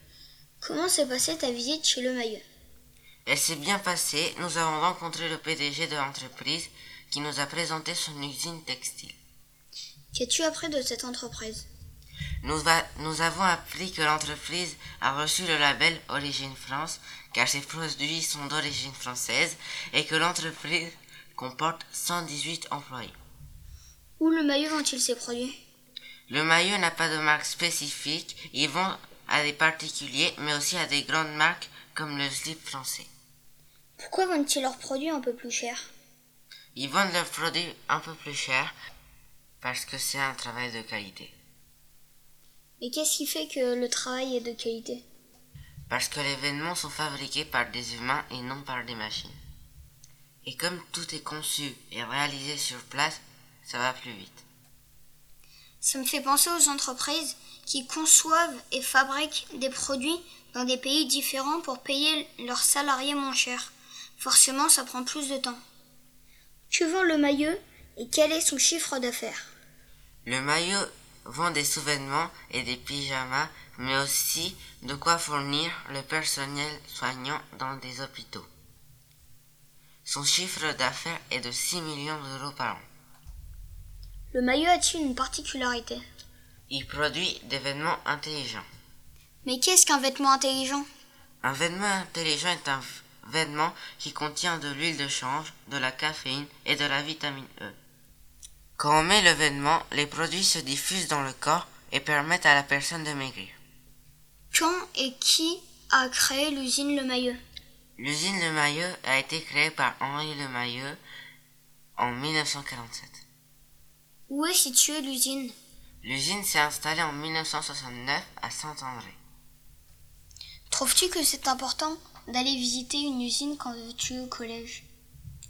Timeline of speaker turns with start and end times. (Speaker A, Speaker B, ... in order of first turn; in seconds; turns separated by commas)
Speaker A: 0.6-2.4, Speaker B: 3.2-9.2, Speaker A: 10.1-11.7, Speaker B: 12.4-23.1, Speaker A: 24.2-25.5, Speaker B: 26.3-33.1, Speaker A: 34.0-35.8, Speaker B: 36.7-38.7, Speaker B: 39.6-41.3, Speaker A: 42.8-45.0, Speaker B: 45.9-49.4, Speaker B: 50.4-54.4, Speaker A: 55.8-65.6, Speaker A: 66.7-69.5, Speaker B: 70.2-78.5, Speaker B: 80.0-82.8, Speaker A: 84.3-86.0, Speaker B: 86.7-88.7, Speaker A: 89.4-90.9, Speaker B: 91.4-97.8, Speaker B: 98.8-103.5, Speaker A: 104.5-107.4, Speaker B: 108.0-111.0, Speaker B: 112.0-113.2, Speaker A: 114.3-115.5, Speaker B: 116.0-119.2, Speaker A: 120.7-124.8